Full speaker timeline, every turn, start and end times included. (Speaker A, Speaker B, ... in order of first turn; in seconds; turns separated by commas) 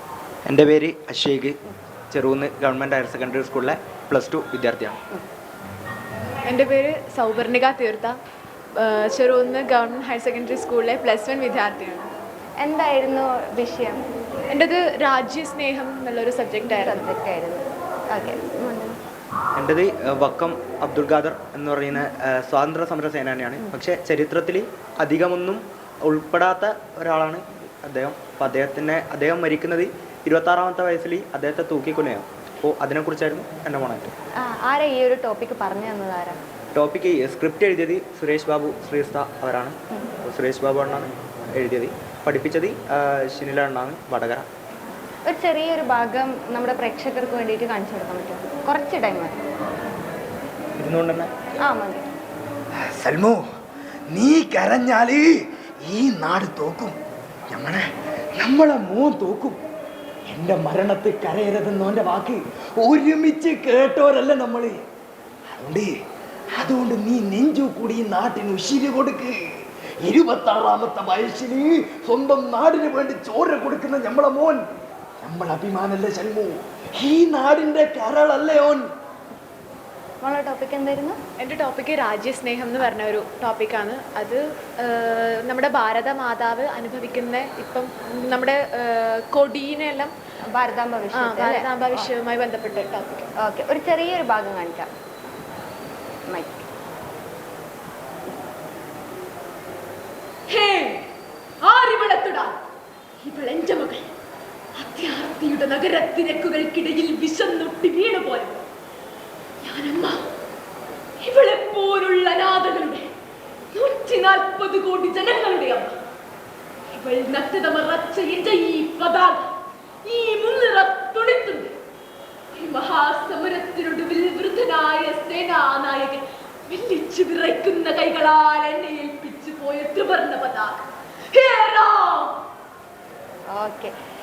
Speaker A: 0.5-1.6, Speaker A: 2.1-5.0, Speaker B: 6.5-8.1, Speaker B: 8.8-12.1, Speaker C: 12.6-14.0, Speaker B: 14.5-17.0, Speaker C: 16.7-19.0, Speaker A: 19.6-34.1, Speaker C: 34.4-36.4, Speaker A: 36.7-44.5, Speaker C: 45.3-49.3, Speaker A: 50.8-51.3, Speaker C: 51.6-52.0, Speaker D: 53.0-53.4, Speaker D: 54.1-55.2, Speaker D: 55.8-56.9, Speaker D: 57.5-57.8, Speaker D: 58.4-59.6, Speaker D: 60.3-64.8, Speaker D: 65.5-65.9, Speaker D: 66.6-69.3, Speaker D: 70.0-74.6, Speaker D: 75.2-78.8, Speaker C: 80.2-81.2, Speaker B: 81.4-90.1, Speaker C: 90.6-92.1, Speaker B: 91.2-93.3, Speaker C: 93.4-94.9, Speaker C: 96.3-96.6, Speaker E: 100.5-101.1, Speaker E: 101.6-102.6, Speaker E: 103.2-104.1, Speaker E: 104.8-108.6, Speaker E: 109.6-110.2, Speaker E: 111.2-113.1, Speaker E: 113.7-115.9, Speaker E: 116.9-119.5, Speaker E: 120.0-121.7, Speaker E: 122.6-132.4, Speaker C: 133.5-133.9